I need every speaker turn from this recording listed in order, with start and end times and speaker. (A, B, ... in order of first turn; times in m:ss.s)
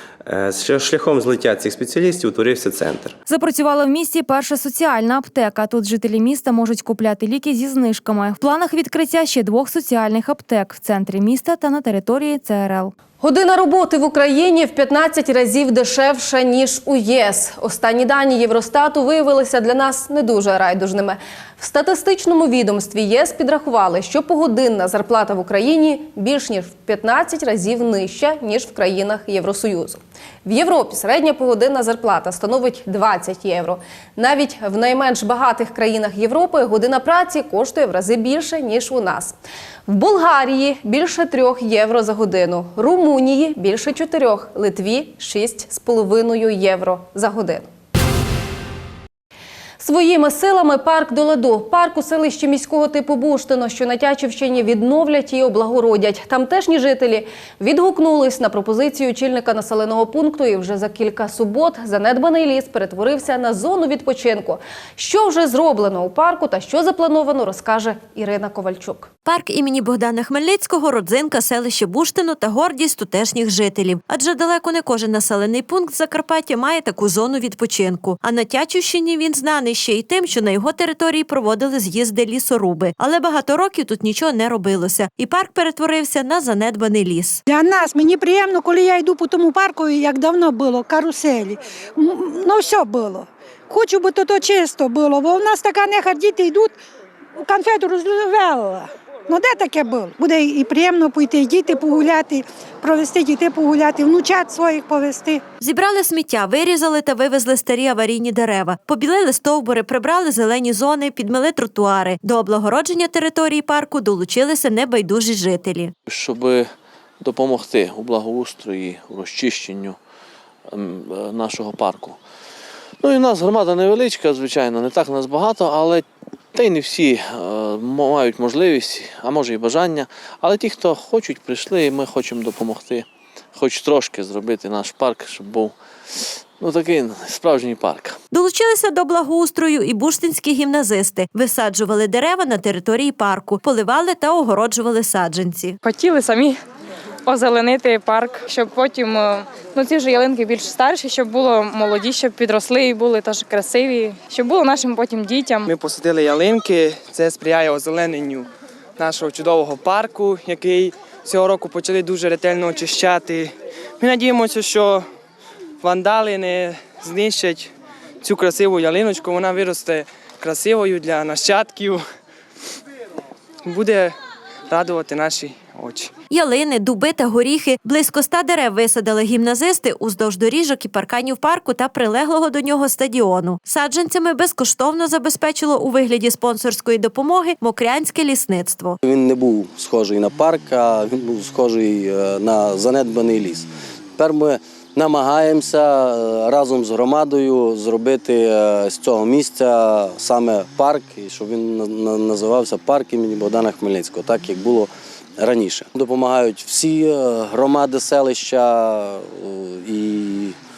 0:00.2-0:03.2 A
0:03.3-0:12.9 B
0:13.2-0:47.7 C
0:49.8-1:09.1 C
1:09.3-1:27.4 D
1:27.5-1:36.8 E
1:37.4-1:45.4 E
1:45.6-1:55.9 D
1:56.1-2:00.0 F
2:00.7-2:02.2 F
2:03.0-2:18.2 F
2:18.3-2:25.8 D
2:25.8-2:26.6 G
2:27.3-2:35.7 G
2:35.7-2:45.0 H
2:45.8-2:52.0 H
2:53.6-2:54.2 H
2:54.7-2:56.1 H
2:56.3-3:09.0 D
3:09.0-3:30.6 I